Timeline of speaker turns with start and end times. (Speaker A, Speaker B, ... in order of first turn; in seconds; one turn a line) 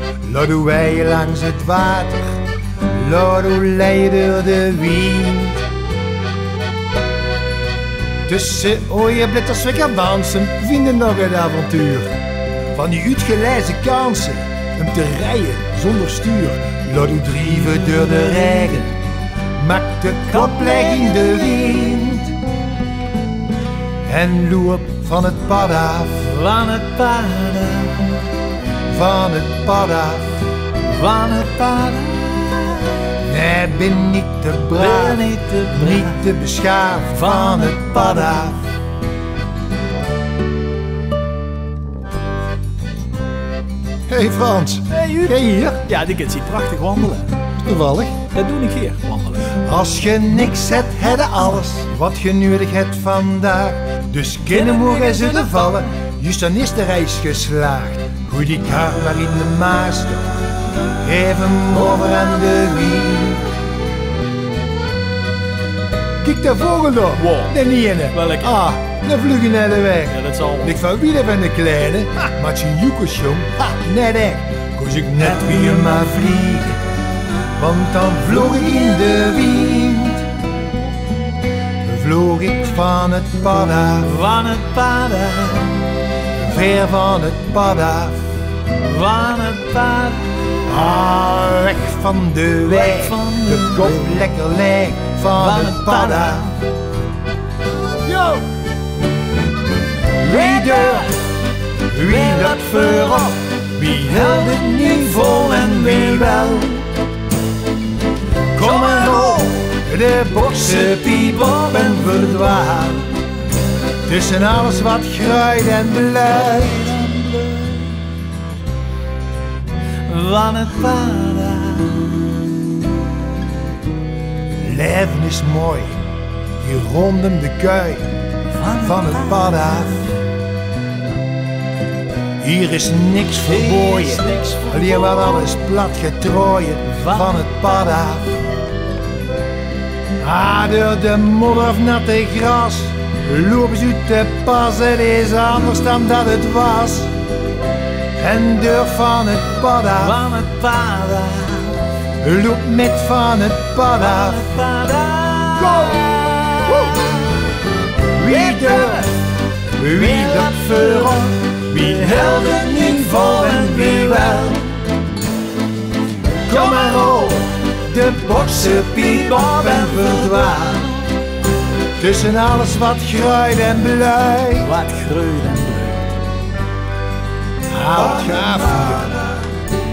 Speaker A: 0.2-5.7
Speaker A: 8.2-12.2
Speaker A: 12.7-19.0
Speaker A: 19.5-22.4
Speaker B: 20.3-21.3
Speaker A: 24.1-26.3
Speaker B: 26.2-28.3
Speaker A: 28.9-30.5
Speaker B: 30.8-33.1
Speaker A: 33.2-38.6
Speaker B: 34.7-36.2
Speaker B: 37.1-38.6
Speaker A: 44.1-45.9
Speaker B: 44.9-47.5
Speaker A: 47.5-48.3
Speaker B: 48.2-49.5
Speaker A: 49.5-63.5
Speaker B: 54.5-56.0
Speaker A: 66.2-76.8
Speaker B: 67.2-67.5
Speaker B: 68.1-68.5
Speaker B: 70.1-70.8
Speaker A: 77.5-80.3
Speaker A: 81.8-84.1
Speaker B: 84.0-85.9
Speaker A: 86.3-88.2
Speaker B: 88.7-90.6
Speaker A: 90.7-96.5
Speaker B: 92.7-94.1
Speaker B: 95.3-96.6
Speaker A: 98.0-98.5
Speaker A: 100.2-101.1
Speaker B: 100.2-101.2
Speaker A: 101.9-106.8
Speaker B: 102.0-106.6
Speaker A: 108.5-113.1
Speaker B: 108.5-109.6
Speaker B: 110.6-112.3
Speaker A: 114.0-117.0
Speaker B: 116.8-118.0
Speaker B: 120.0-122.8
Speaker A: 124.5-130.0
Speaker B: 128.5-130.0
Speaker A: 132.4-138.3
Speaker B: 133.4-135.5
Speaker B: 136.9-137.3
Speaker A: 140.2-147.1
Speaker A: 148.2-150.2
Speaker B: 150.0-151.9
Speaker A: 152.2-154.4
Speaker B: 154.0-157.5
Speaker A: 155.6-156.1
Speaker A: 158.1-159.1
Speaker B: 158.2-159.2
Speaker A: 159.7-164.6
Speaker B: 159.9-164.9
Speaker A: 166.5-170.9
Speaker B: 166.5-167.0
Speaker B: 169.2-171.0
Speaker A: 172.0-174.7
Speaker B: 174.6-176.2
Speaker A: 177.7-179.3